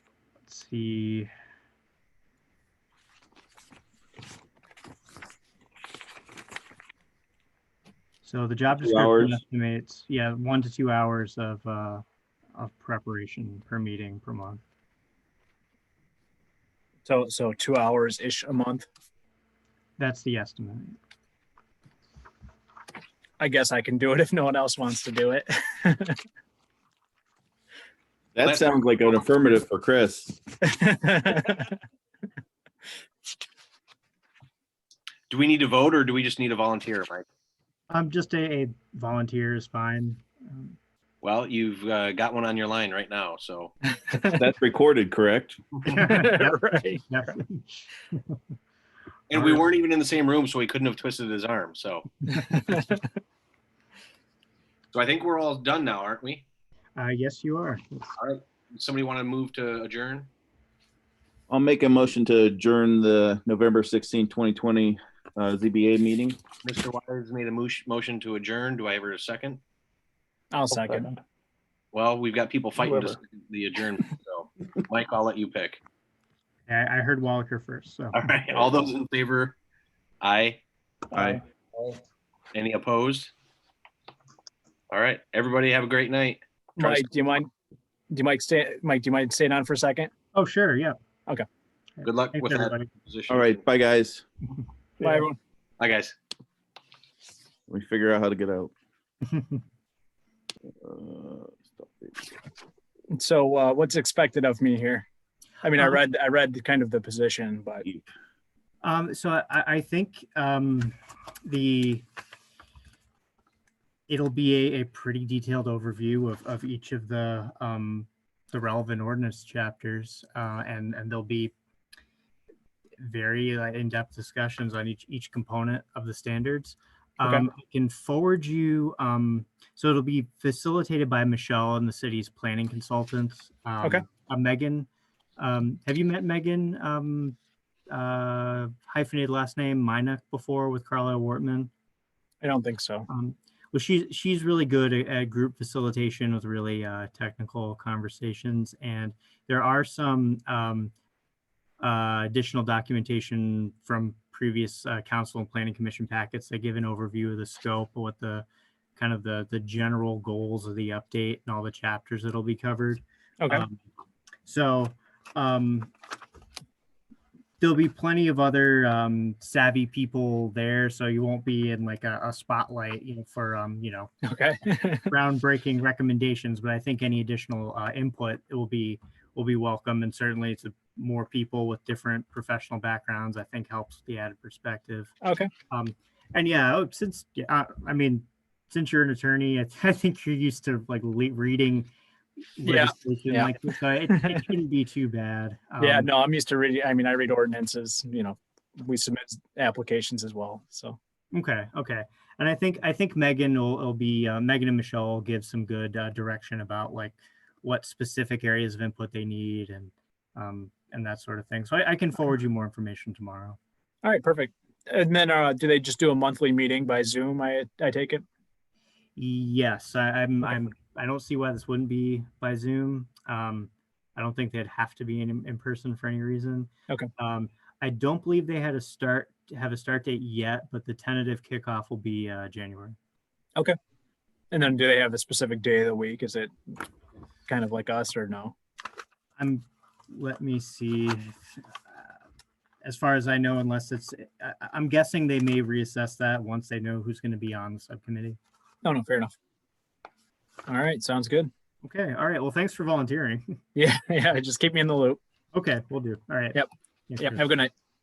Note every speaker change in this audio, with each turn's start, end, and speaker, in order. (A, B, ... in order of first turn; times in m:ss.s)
0:00.5-0:01.3 A
0:08.2-0:12.0 A
0:08.7-0:09.4 B
0:12.6-0:14.6 A
0:17.1-0:18.8 C
0:20.0-0:21.0 A
0:23.4-0:26.2 C
0:28.4-0:30.4 B
0:28.4-0:28.8 D
0:30.6-0:31.8 C
0:35.3-0:37.2 D
0:37.9-0:40.8 A
0:41.2-0:43.7 D
0:43.9-0:44.4 C
0:44.3-0:45.6 B
0:45.8-0:48.4 A
0:45.9-0:47.0 C
0:49.3-0:52.2 D
0:49.3-0:49.6 A
0:52.3-0:53.1 C
0:52.3-0:52.6 A
0:54.9-0:56.4 D
0:57.0-0:58.1 A
0:58.2-1:00.3 D
1:01.5-1:06.4 B
1:06.6-1:09.6 D
1:10.5-1:11.2 C
1:11.9-1:15.8 D
1:12.8-1:13.2 B
1:16.7-1:18.2 A
1:18.1-1:19.6 D
1:20.2-1:20.6 D
1:21.1-1:21.4 B
1:22.5-1:23.3 D
1:24.9-1:26.4 D
1:26.8-1:27.5 C
1:28.1-1:30.1 C
1:30.3-1:31.0 A
1:32.0-1:32.9 A
1:32.0-1:33.6 D
1:33.3-1:34.2 B
1:35.0-1:35.3 A
1:35.0-1:35.4 C
1:35.8-1:36.2 D
1:37.7-1:38.7 B
1:39.3-1:39.6 A
1:40.8-1:42.3 B
1:43.1-1:45.1 C
1:45.6-1:47.8 C
1:45.8-1:46.0 A
1:48.8-1:52.0 A
1:54.1-2:01.5 A
2:03.0-2:17.4 A
2:17.9-2:21.7 A
2:22.4-2:23.1 C
2:23.1-2:30.9 A
2:31.8-2:38.5 A
2:39.0-2:43.8 A
2:44.5-2:45.9 A
2:47.6-2:54.1 A
2:54.2-2:55.1 C
2:55.1-3:05.1 A
3:05.2-3:05.5 C
3:05.7-3:11.9 A
3:12.6-3:16.1 A
3:12.6-3:14.4 C
3:15.8-3:21.0 C
3:21.3-3:33.6 A
3:34.0-3:38.2 C
3:39.2-3:53.0 A
3:54.5-3:56.5 C
3:57.5-3:58.6 C
3:59.4-4:02.2 A
4:02.8-4:08.4 A
4:08.8-4:09.3 C
4:10.7-4:11.5 C
4:11.8-4:13.6 A
4:13.8-4:15.2 C
4:15.5-4:17.5 A
4:17.2-4:17.7 C